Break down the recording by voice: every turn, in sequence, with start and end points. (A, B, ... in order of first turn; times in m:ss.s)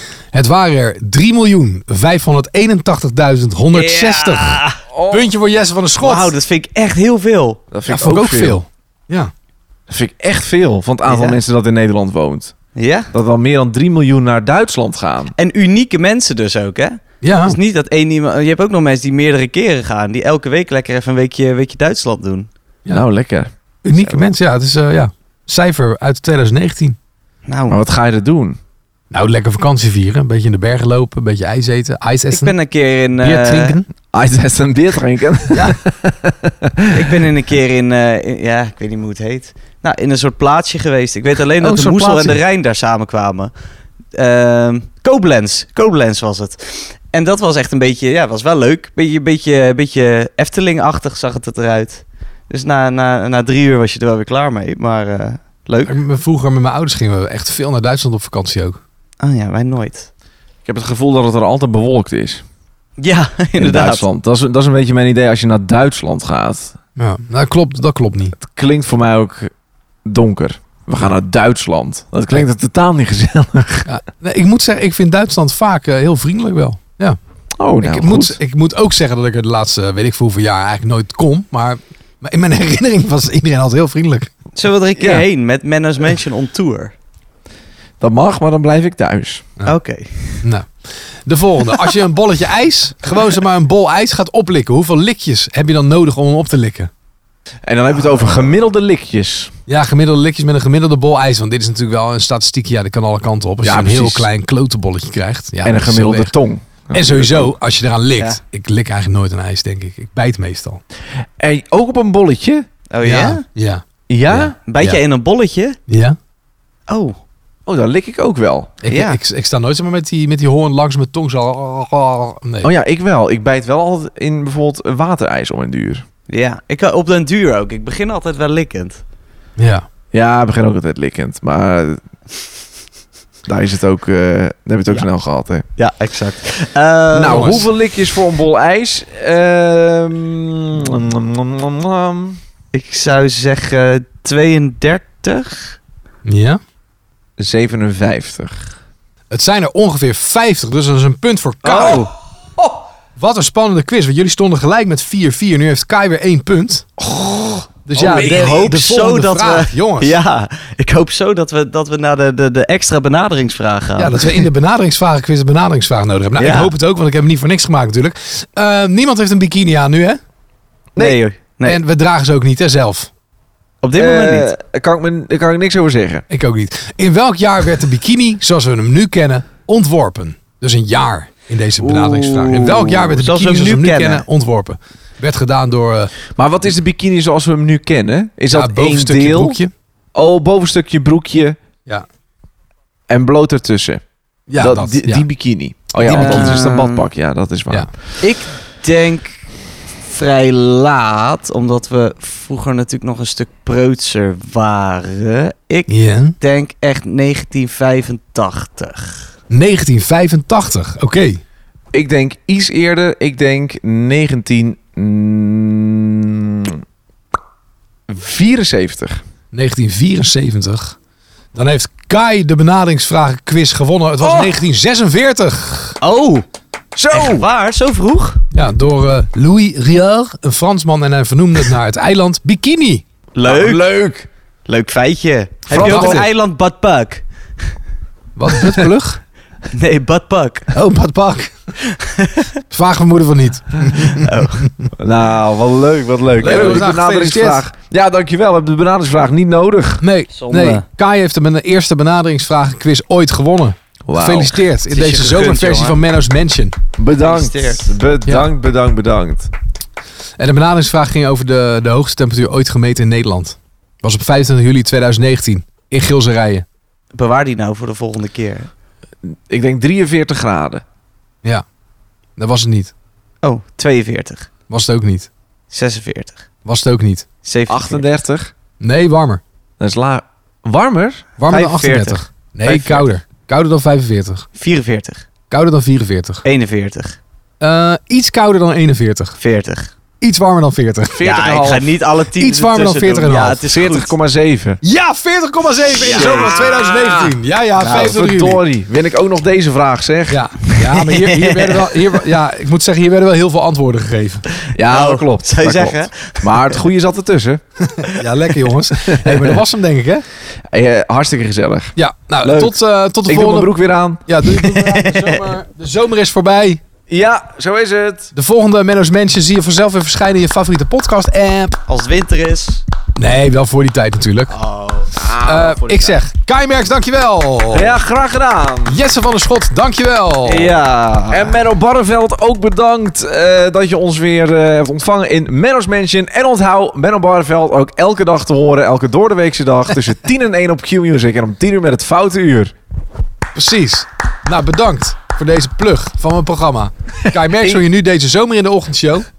0:00.3-0:06.3 A
0:03.7-0:04.8 B
0:04.9-0:05.3 C
0:06.0-0:07.6 B
0:07.7-0:08.6 C
0:07.9-0:09.3 A
0:09.9-0:12.5 C
0:11.0-0:11.4 B
0:12.8-0:13.1 B
0:13.1-0:15.3 C
0:15.4-0:22.5 B
0:17.2-0:17.6 A
0:22.9-0:23.5 C
0:23.8-0:27.0 A
0:27.4-0:27.8 B
0:27.7-0:28.6 C
0:29.1-0:32.5 A
0:32.3-0:33.8 B
0:33.2-0:33.9 A
0:34.1-0:37.2 C
0:35.5-0:35.8 A
0:36.9-0:43.5 B
0:41.6-0:42.4 C
0:44.1-0:56.0 B
0:55.8-0:58.8 A
0:59.2-1:00.1 B
1:00.6-1:02.4 C
1:03.0-1:04.0 B
1:03.6-1:06.7 C
1:07.0-1:08.3 A
1:08.4-1:09.5 C
1:10.0-1:13.9 C
1:13.9-1:17.2 A
1:17.6-1:18.4 C
1:17.8-1:24.3 A
1:24.6-1:26.9 B
1:25.0-1:25.2 C
1:28.0-1:29.5 C
1:29.6-1:30.4 B
1:30.4-1:30.7 A
1:31.2-1:36.9 A
1:37.6-1:39.5 C
1:39.7-1:46.3 A
1:43.6-1:44.3 C
1:45.6-1:47.5 C
1:46.9-1:50.8 A
1:51.4-1:52.7 C
1:52.9-1:53.4 B
1:53.0-1:55.0 A
1:54.1-1:54.6 C
1:54.7-1:55.8 B
1:55.9-1:56.2 A
1:56.9-1:57.2 B
1:57.6-1:58.7 C
1:58.8-2:02.7 A
1:58.9-1:59.2 B
2:02.6-2:06.0 C
2:06.3-2:09.0 B
2:09.6-2:09.8 A
2:10.1-2:12.0 C
2:13.4-2:15.6 C
2:15.8-2:17.6 B
2:17.1-2:22.4 C
2:17.3-2:17.6 A
2:22.7-2:25.8 B
2:26.2-2:26.6 A
2:27.4-2:28.7 C
2:29.3-2:32.0 A
2:31.6-2:32.1 B
2:31.7-2:32.8 C
2:33.2-2:36.8 A
2:37.0-2:38.7 C
2:37.9-2:40.2 A
2:38.0-2:44.5 B
2:44.0-2:50.2 A
2:46.4-2:46.7 B
2:50.9-2:51.2 C
2:51.0-2:51.8 B
2:51.6-2:53.1 A
2:53.8-2:54.5 B
2:54.0-2:56.2 C
2:56.3-3:06.1 A
3:01.9-3:04.2 B
3:06.3-3:09.6 C
3:08.5-3:09.7 A
3:10.1-3:11.6 C
3:13.1-3:14.0 C
3:14.5-3:15.3 A
3:14.6-3:17.9 C
3:16.0-3:16.7 A
3:16.1-3:17.0 B
3:18.2-3:19.4 B
3:20.0-3:29.3 B
3:25.9-3:26.3 A
3:29.5-3:31.4 A
3:31.9-3:36.8 C
3:38.1-3:39.2 C
3:39.5-3:41.0 A
3:41.5-3:46.0 A
3:44.2-3:44.5 C
3:46.0-3:46.4 B
3:47.0-3:47.4 C
3:47.1-3:48.4 B
3:48.5-3:53.0 A
3:53.3-3:53.8 B
3:53.4-3:54.3 C
3:54.6-3:57.2 B
3:55.7-3:56.3 C
3:55.7-3:56.2 A
3:58.4-3:59.2 A
3:58.5-3:58.9 B
3:59.7-4:00.7 B
4:00.7-4:01.5 A
4:01.8-4:02.4 B
4:02.7-4:04.3 A
4:04.1-4:04.7 B
4:05.0-4:10.0 C
4:06.4-4:07.6 A
4:10.0-4:16.8 A
4:10.3-4:10.8 B
4:14.0-4:14.6 C
4:14.9-4:16.0 B
4:17.0-4:19.5 C
4:17.2-4:18.0 B
4:20.4-4:26.6 A
4:27.1-4:28.7 B
4:29.2-4:30.8 C
4:32.4-4:32.9 A
4:33.4-4:34.5 B
4:34.7-4:35.3 A
4:35.7-4:36.4 B
4:36.6-4:37.2 A
4:37.4-4:38.0 B
4:37.7-4:38.5 C
4:38.8-4:39.4 A
4:39.8-4:41.3 C
4:41.4-4:44.5 A
4:41.5-4:42.2 B
4:42.6-4:43.0 C
4:44.6-4:45.2 B
4:45.5-4:46.4 A
4:46.4-4:47.2 B
4:47.6-4:49.4 A
4:49.4-4:49.9 B
4:50.2-4:51.2 A
4:51.1-4:52.0 C
4:51.2-4:54.1 B
4:52.4-4:53.6 A
4:53.7-4:54.8 C
4:54.8-4:58.6 A
4:55.9-4:56.6 B
4:56.0-5:00.4 C
5:00.3-5:04.4 A
5:00.7-5:02.2 B
5:04.6-5:06.8 B
5:04.7-5:07.6 C
5:07.9-5:10.2 A
5:09.0-5:09.6 C
5:10.7-5:14.4 C
5:12.0-5:16.8 A
5:14.7-5:15.4 B
5:17.1-5:18.3 C
5:18.3-5:21.7 A
5:21.9-5:22.8 B
5:23.2-5:24.5 A
5:24.5-5:25.1 B
5:25.2-5:26.2 C
5:25.4-5:28.0 A
5:27.7-5:29.0 C
5:28.8-5:30.7 A
5:30.4-5:31.6 B
5:31.3-5:42.7 C
5:43.5-5:49.2 A